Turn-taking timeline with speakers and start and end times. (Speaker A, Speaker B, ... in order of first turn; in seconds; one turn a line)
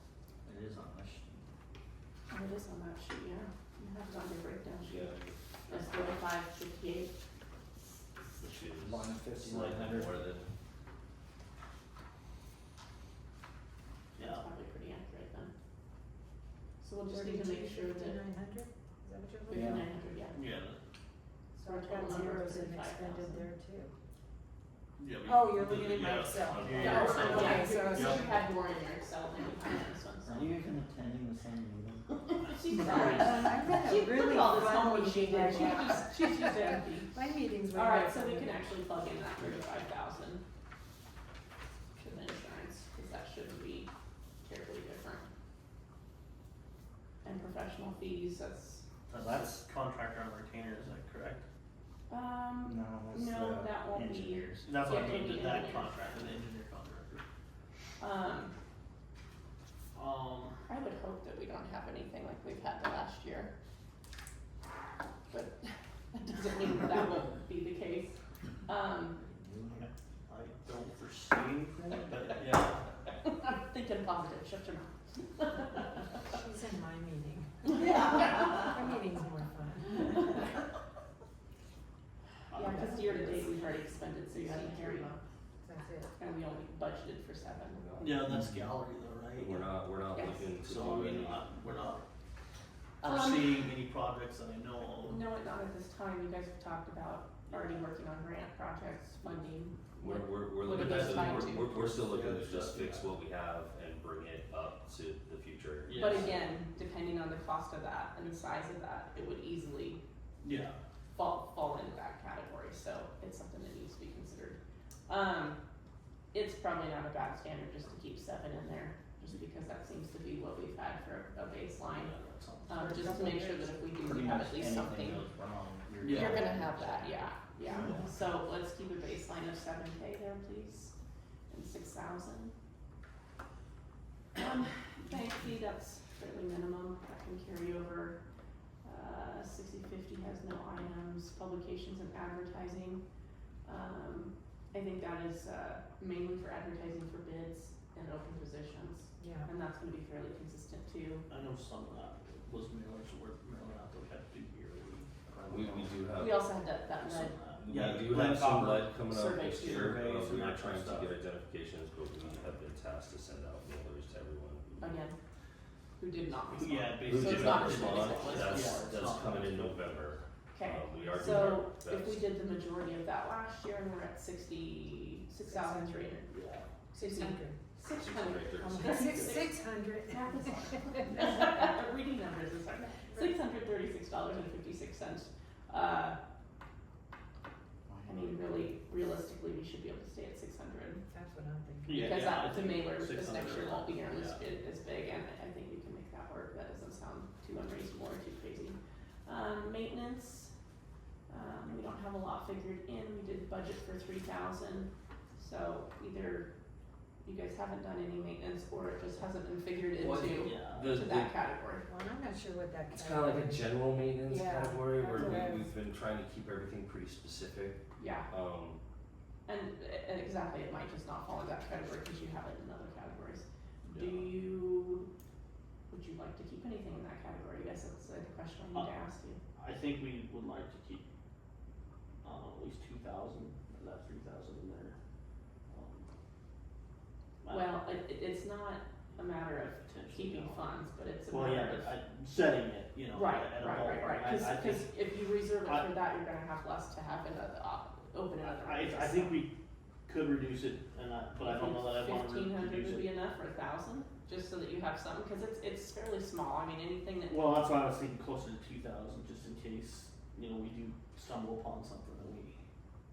Speaker A: 0.5-1.3
Speaker B: 2.3-5.2
Speaker A: 5.0-5.3
Speaker B: 5.7-7.1
Speaker A: 8.4-10.4
Speaker C: 9.4-10.2
Speaker B: 14.1-15.5
Speaker C: 14.2-14.4
Speaker B: 16.8-18.2
Speaker D: 17.1-19.8
Speaker B: 19.5-20.4
Speaker A: 19.5-19.8
Speaker C: 20.3-20.8
Speaker D: 21.5-23.9
Speaker B: 21.6-23.5
Speaker C: 25.0-28.3
Speaker D: 25.3-28.4
Speaker B: 26.8-30.5
Speaker E: 30.3-32.0
Speaker A: 30.3-30.8
Speaker B: 32.3-37.1
Speaker C: 32.7-33.3
Speaker D: 32.9-38.6
Speaker B: 37.7-40.4
Speaker B: 42.0-43.9
Speaker B: 44.4-45.3
Speaker B: 47.2-48.8
Speaker C: 49.1-51.4
Speaker B: 52.1-56.3
Speaker A: 52.7-54.6
Speaker C: 54.6-57.2
Speaker B: 58.0-58.5
Speaker C: 59.9-60.6
Speaker B: 60.6-63.5
Speaker B: 65.3-69.2
Speaker A: 69.2-69.8
Speaker C: 69.8-72.8
Speaker B: 73.4-75.9
Speaker D: 76.3-80.2
Speaker B: 77.8-78.5
Speaker C: 82.5-83.6
Speaker B: 82.5-85.2
Speaker C: 84.3-85.1
Speaker D: 85.6-86.1
Speaker B: 86.2-87.8
Speaker A: 87.9-88.7
Speaker C: 88.0-89.7
Speaker A: 89.3-91.4
Speaker B: 90.1-90.5
Speaker C: 90.6-92.0
Speaker B: 93.0-93.6
Speaker C: 93.0-95.2
Speaker B: 95.0-101.7
Speaker C: 97.5-97.8
Speaker A: 100.0-106.4
Speaker C: 100.7-103.1
Speaker C: 105.9-106.3
Speaker B: 105.9-110.0
Speaker C: 110.4-110.8
Speaker B: 111.2-115.6
Speaker B: 116.3-122.1
Speaker C: 121.9-122.8
Speaker B: 122.7-125.3
Speaker D: 122.7-123.6
Speaker E: 124.0-127.0
Speaker A: 125.0-125.3
Speaker C: 126.0-126.4
Speaker B: 126.0-130.9
Speaker A: 126.2-127.1
Speaker B: 131.5-132.5
Speaker B: 134.3-138.2
Speaker B: 138.8-143.0
Speaker B: 143.6-151.3
Speaker D: 149.2-149.5
Speaker C: 151.3-155.9
Speaker A: 155.5-156.4
Speaker B: 156.2-157.3
Speaker C: 157.0-161.2
Speaker A: 157.6-164.9
Speaker B: 159.1-160.0
Speaker B: 164.8-165.2
Speaker B: 166.0-168.9
Speaker C: 166.5-169.8
Speaker A: 167.0-172.2
Speaker B: 170.5-176.3
Speaker D: 175.5-176.1
Speaker C: 176.3-176.7
Speaker B: 176.9-186.2
Speaker D: 176.9-177.6
Speaker A: 177.9-178.9
Speaker D: 178.7-181.2
Speaker D: 183.0-183.3
Speaker B: 188.0-191.0
Speaker D: 191.1-192.2
Speaker C: 191.8-194.4
Speaker B: 191.9-200.5
Speaker B: 201.3-206.5
Speaker B: 207.2-211.8
Speaker A: 210.0-211.3
Speaker C: 210.4-210.9
Speaker D: 211.8-213.6
Speaker A: 212.9-217.8
Speaker D: 214.2-215.7
Speaker B: 215.2-215.5
Speaker B: 218.0-218.3
Speaker A: 218.3-218.8
Speaker B: 219.5-225.1
Speaker C: 223.8-224.3
Speaker B: 225.9-229.4
Speaker C: 229.6-231.1
Speaker C: 232.2-234.9
Speaker C: 235.7-236.1
Speaker B: 237.5-241.9
Speaker C: 239.8-240.6
Speaker C: 241.3-244.9
Speaker B: 243.1-249.4
Speaker C: 245.6-245.9
Speaker C: 248.4-249.5
Speaker C: 250.1-253.1
Speaker B: 251.4-257.5
Speaker C: 257.3-262.6